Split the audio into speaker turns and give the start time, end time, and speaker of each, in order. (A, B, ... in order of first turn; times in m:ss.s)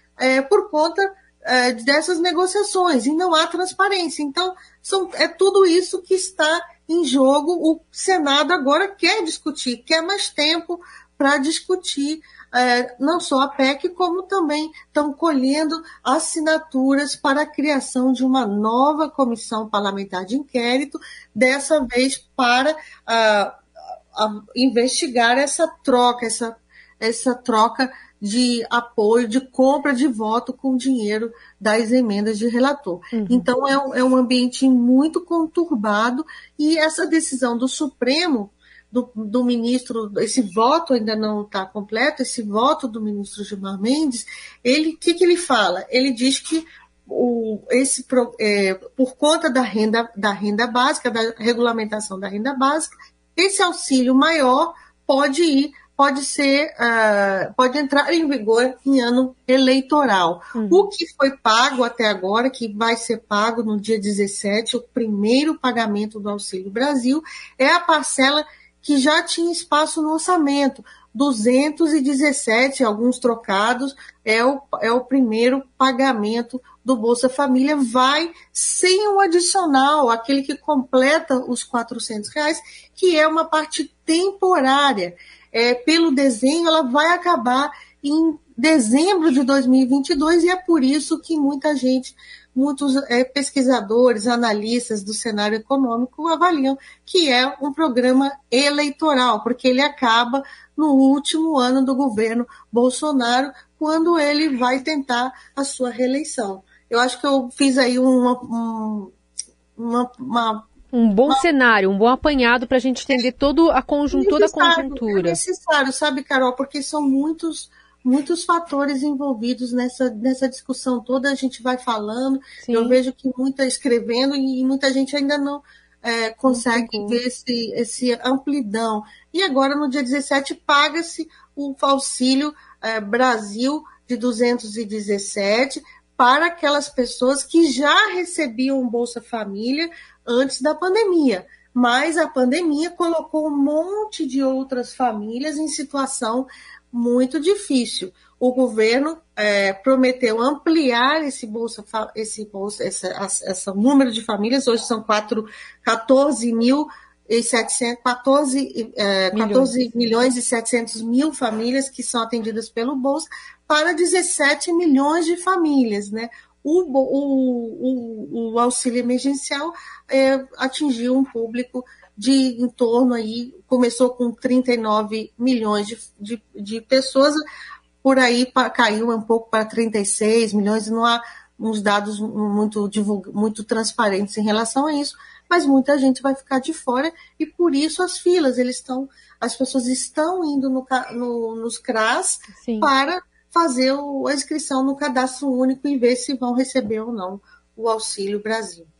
0:00.2-0:23.6 A
0:24.1-1:49.1 A
0:33.1-0:33.5 B
1:00.5-1:00.9 B
1:49.8-1:50.7 A
1:50.9-1:55.4 B
1:54.1-2:57.4 A
2:02.6-2:03.0 B
2:06.5-2:07.2 B
2:39.3-2:39.7 B
2:58.0-3:18.9 A
3:12.6-3:12.9 B